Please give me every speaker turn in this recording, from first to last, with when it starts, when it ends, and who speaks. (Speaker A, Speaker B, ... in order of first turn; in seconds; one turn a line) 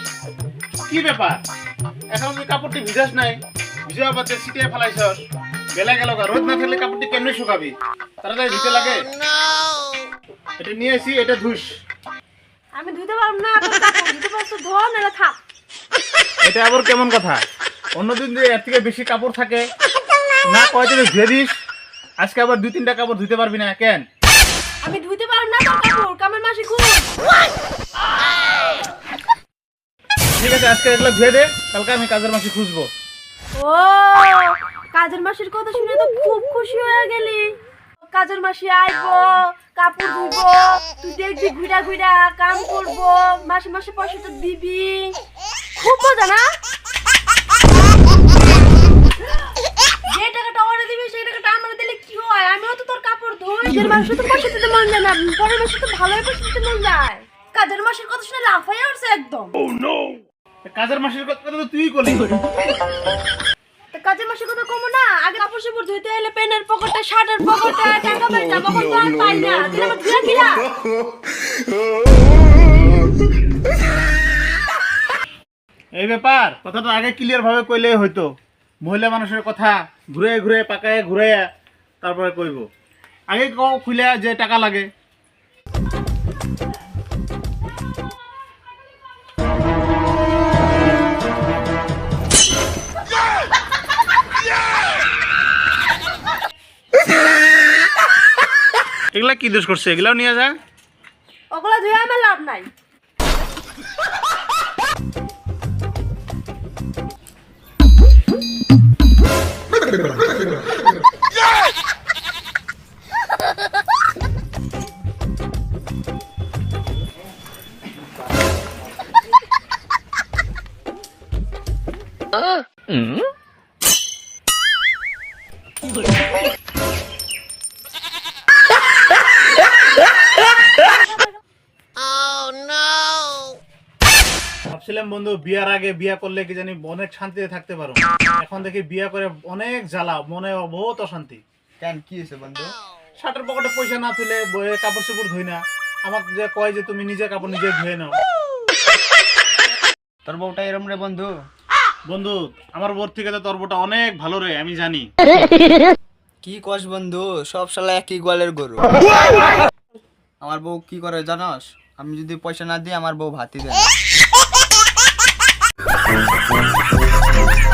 Speaker A: 0.9-1.4
Speaker A: 2.1-5.2
Speaker A: 5.8-9.1
Speaker A: 10.6-11.8
Speaker B: 12.8-15.4
Speaker A: 16.4-17.4
Speaker A: 18.0-19.7
Speaker A: 20.5-21.5
Speaker A: 22.2-24.0
Speaker B: 24.8-27.1
Speaker A: 30.4-32.9
Speaker B: 33.6-37.5
Speaker B: 38.1-45.2
Speaker B: 45.8-46.4
Speaker B: 50.1-59.6
Speaker A: 60.6-62.3
Speaker B: 63.9-70.7
Speaker A: 76.0-78.3
Speaker A: 78.8-81.5
Speaker A: 82.0-82.7
Speaker A: 83.3-84.9
Speaker A: 99.1-100.5
Speaker B: 101.5-102.7
Speaker A: 134.7-141.4
Speaker C: 141.8-142.8
Speaker A: 143.2-148.2
Speaker C: 150.2-151.3
Speaker A: 152.1-155.1
Speaker C: 156.4-159.0
Speaker C: 160.4-164.0